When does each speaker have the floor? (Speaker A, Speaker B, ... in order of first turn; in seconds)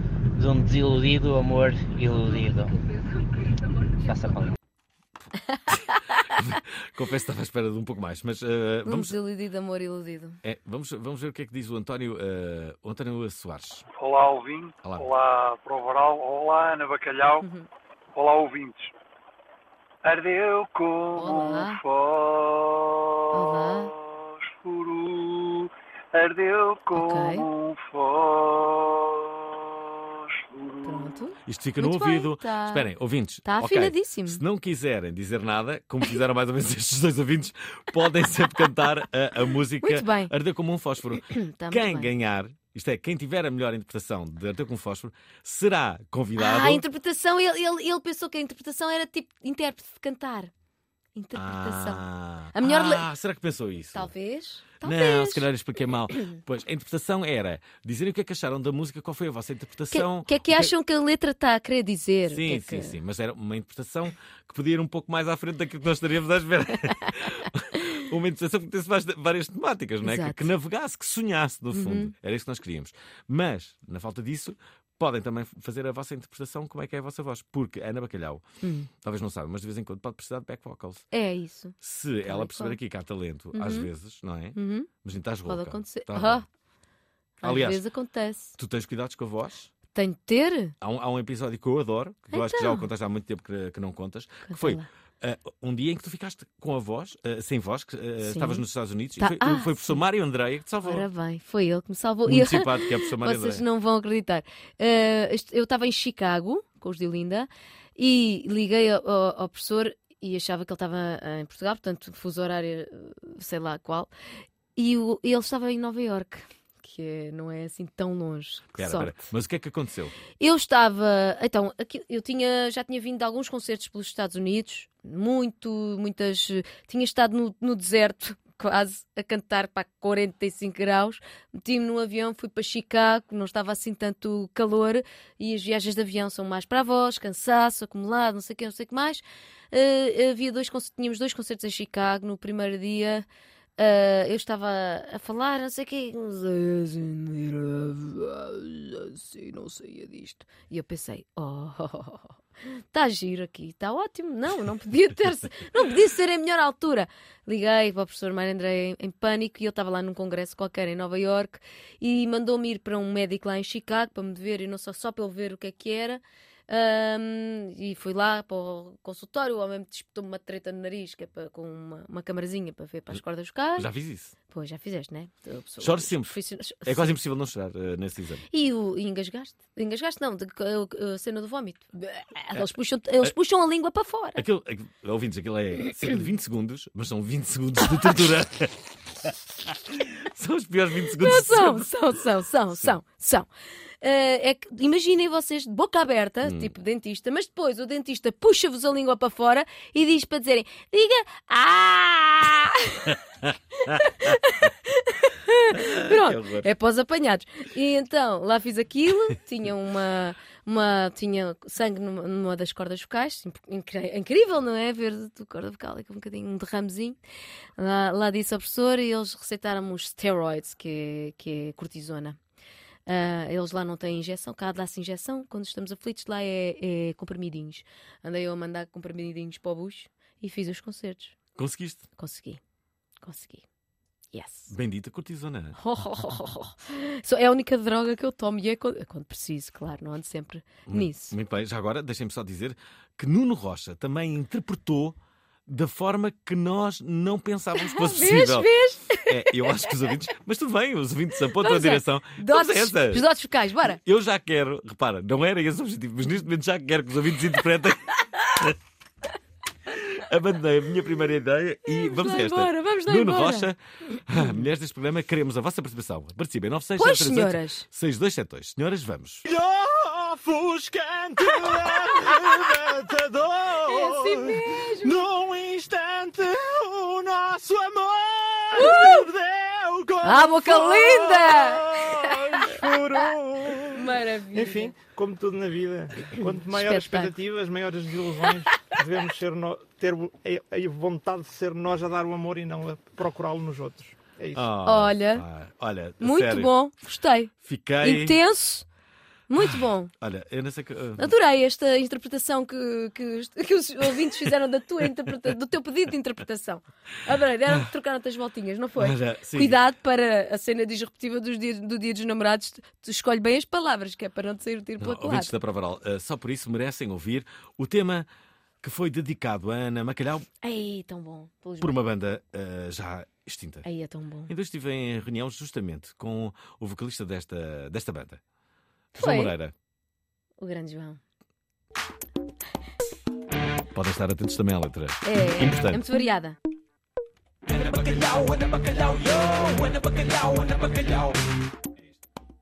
Speaker A: 0.3-2.7, 4.0-4.5
Speaker B: 5.7-9.2, 10.4-13.8, 14.8-15.1, 31.4-46.8, 51.3-54.1, 54.8-60.7, 62.3-78.4, 79.0-81.0, 81.8-86.5, 87.4-87.8, 88.6-89.7, 90.8-101.1, 102.2-103.6, 118.8-120.1, 173.8-174.3, 175.8-178.4, 184.3-191.9, 196.4-196.7, 205.7-206.7, 231.6-232.1, 234.7-235.8, 240.9-245.2, 245.7-253.2, 253.8-258.8, 259.9-269.5, 272.1-272.7, 273.5-274.1, 294.5-296.7, 297.6-298.4, 299.6-301.3, 309.0-309.8, 315.0-318.3, 318.8-320.5, 321.8-323.9, 324.5-328.4, 329.1-329.7, 333.9-336.0, 337.7-341.5
Speaker C: 8.8-10.4, 17.4-17.7, 21.1-21.8, 23.3-23.9, 26.9-27.5, 30.8-32.9, 33.4-34.4, 39.8-40.3, 41.2-42.1, 46.4-50.5, 51.1-53.1, 53.9-55.5, 59.9-63.0, 70.0-70.5, 71.7-72.1, 78.6-78.9, 81.1-82.8, 83.5-83.9, 84.5-84.9, 85.5-86.5, 87.4-88.6, 89.9-90.7, 92.3-92.9, 94.5-94.9, 98.2-98.6, 99.2-100.0, 100.8-114.1, 114.7-119.2, 120.4-143.2, 143.8-173.9, 174.5-177.2, 178.5-184.4, 191.2-193.5, 194.0-203.1, 203.9-217.2, 217.8-222.4, 223.1-231.3, 232.2-232.6, 233.2-233.6, 234.3-234.7, 235.8-241.3, 247.8-250.1, 251.6-254.0, 261.9-263.7, 267.0-267.9, 271.9-272.3, 273.8-275.3, 278.7-279.2, 280.2-285.0, 286.3-287.3, 294.8-295.4, 296.2-298.9, 299.5-300.1, 301.2-315.5, 320.6-321.9, 323.8-324.5, 329.1-329.5, 330.6-331.2, 335.2-336.6
Speaker D: 13.9-17.4, 18.1-18.9, 20.0-31.2
Speaker E: 269.5-271.9, 273.1-273.4, 275.1-281.6, 282.7-283.8, 284.5-294.6